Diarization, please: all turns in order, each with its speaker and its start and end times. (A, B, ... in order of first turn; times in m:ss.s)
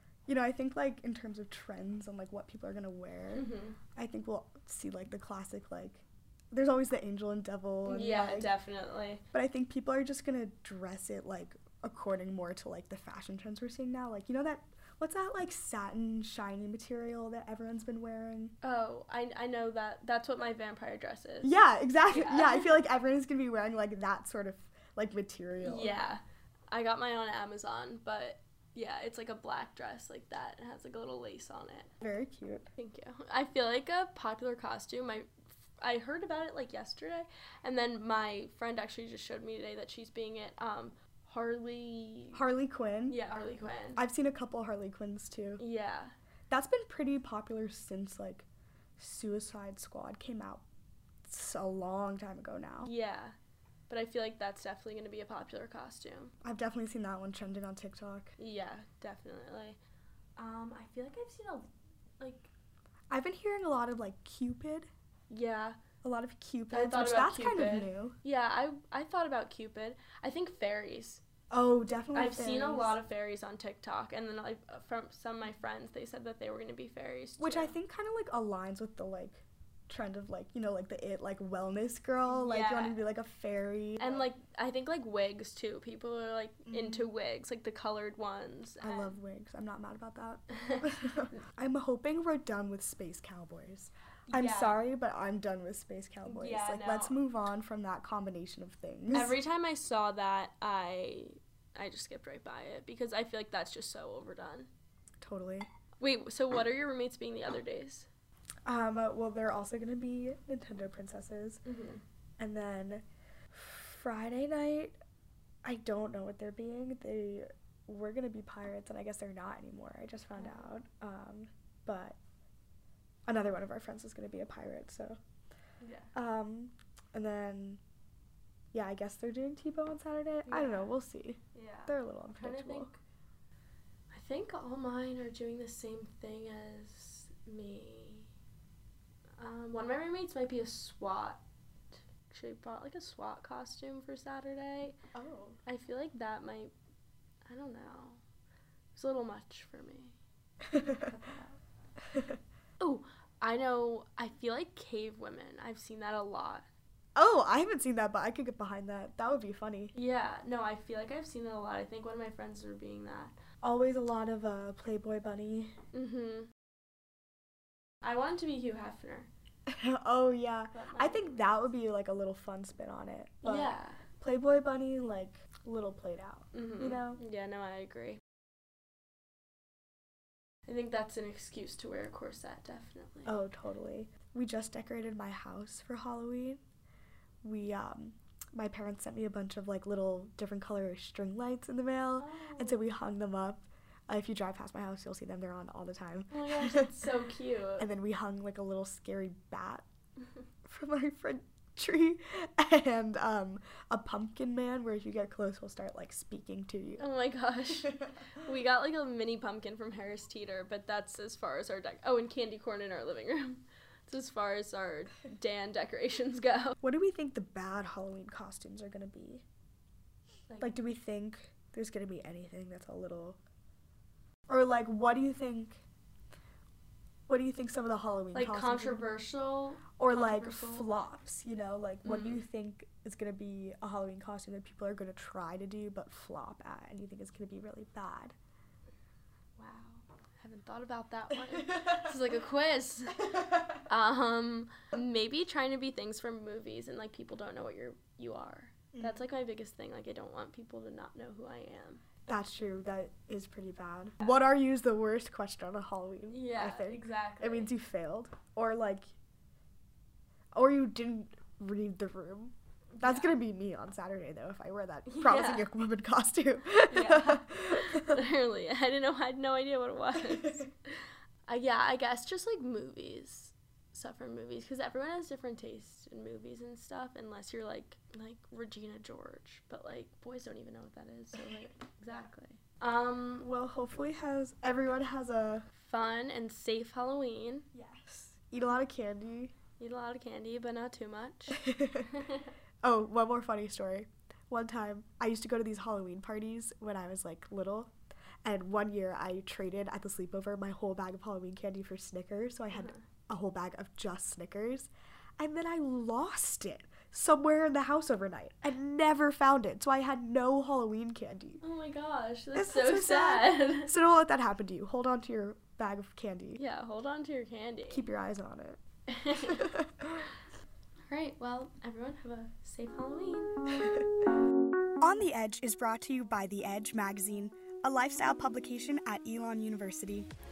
0:00.3-0:08.5 A
0:03.3-0:03.8 B
0:07.8-0:09.2 B
0:09.3-0:18.5 A
0:18.6-0:21.5 B
0:21.4-0:26.0 A
0:22.1-0:22.8 B
0:25.6-0:31.9 B
0:32.0-0:32.6 A
0:32.8-0:42.4 B
0:42.3-0:43.2 A
0:43.1-0:44.0 B
0:44.0-0:45.6 A
0:45.6-0:46.1 B
0:46.5-0:48.5 A
0:49.0-0:50.6 A
0:51.2-0:52.9 A
0:52.8-0:53.3 B
0:53.9-0:56.3 B
0:56.4-0:58.4 A
0:58.4-0:59.8 B
1:00.4-1:02.5 B
1:03.1-1:04.9 A
1:05.3-1:05.8 B
1:06.0-1:08.2 A
1:06.7-1:11.2 B
1:11.5-1:13.0 A
1:12.1-1:17.7 B
1:17.4-1:24.3 A
1:22.2-1:23.0 B
1:24.0-1:29.2 B
1:26.7-1:27.0 A
1:28.8-1:39.4 A
1:34.3-1:34.8 B
1:36.2-1:37.2 B
1:39.1-1:44.7 B
1:45.2-1:45.7 A
1:46.0-1:48.1 B
1:48.6-1:51.6 A
1:51.6-1:52.0 B
1:52.4-1:55.0 A
1:55.6-2:02.2 A
2:00.4-2:00.7 B
2:03.3-2:05.2 A
2:05.8-2:06.1 B
2:06.1-2:07.8 A
2:08.7-2:12.9 A
2:10.5-2:10.9 B
2:11.5-2:13.0 B
2:14.1-2:18.3 B
2:19.4-2:21.4 B
2:22.3-2:26.7 B
2:25.2-2:25.5 A
2:27.4-2:28.2 B
2:28.9-2:30.2 B
2:30.7-2:31.0 A
2:30.8-2:31.6 B
2:32.1-2:32.4 A
2:32.8-2:36.6 B
2:37.2-2:39.9 A
2:39.9-2:43.3 B
2:43.6-2:45.8 A
2:45.9-2:46.5 B
2:48.0-2:49.3 B
2:49.7-2:57.2 A
2:50.7-2:51.6 B
2:53.4-2:54.0 B
2:56.5-2:58.2 B
3:00.7-3:03.4 B
3:03.2-3:06.6 A
3:07.4-3:17.0 A
3:12.2-3:12.8 B
3:16.3-3:17.9 B
3:17.8-3:19.8 A
3:20.6-3:27.0 A
3:27.0-3:36.8 B
3:36.8-3:39.4 A
3:40.5-3:40.7 B
3:40.6-3:43.4 A
3:44.5-3:45.8 A
3:47.3-3:49.0 A
3:48.3-3:51.0 B
3:50.0-3:58.3 A
3:52.0-3:52.4 B
3:59.6-4:12.0 B
4:01.5-4:02.1 A
4:03.2-4:03.6 A
4:08.9-4:09.2 A
4:12.3-4:19.0 A
4:16.3-4:17.7 B
4:20.5-4:28.2 A
4:23.0-4:23.4 B
4:25.0-4:25.7 B
4:26.9-4:43.5 B
4:30.1-4:30.7 A
4:43.4-4:45.7 A
4:45.8-4:47.7 B
4:47.7-4:49.5 A
4:49.8-4:52.5 B
4:51.6-4:52.2 A
4:52.8-4:57.9 A
4:58.4-5:11.6 A
5:02.7-5:03.0 B
5:11.6-5:13.9 B
5:12.5-5:16.6 A
5:16.6-5:18.1 B
5:17.9-5:18.8 A
5:19.1-5:19.7 B
5:19.3-5:20.3 A
5:21.1-5:23.5 B
5:25.0-5:30.3 A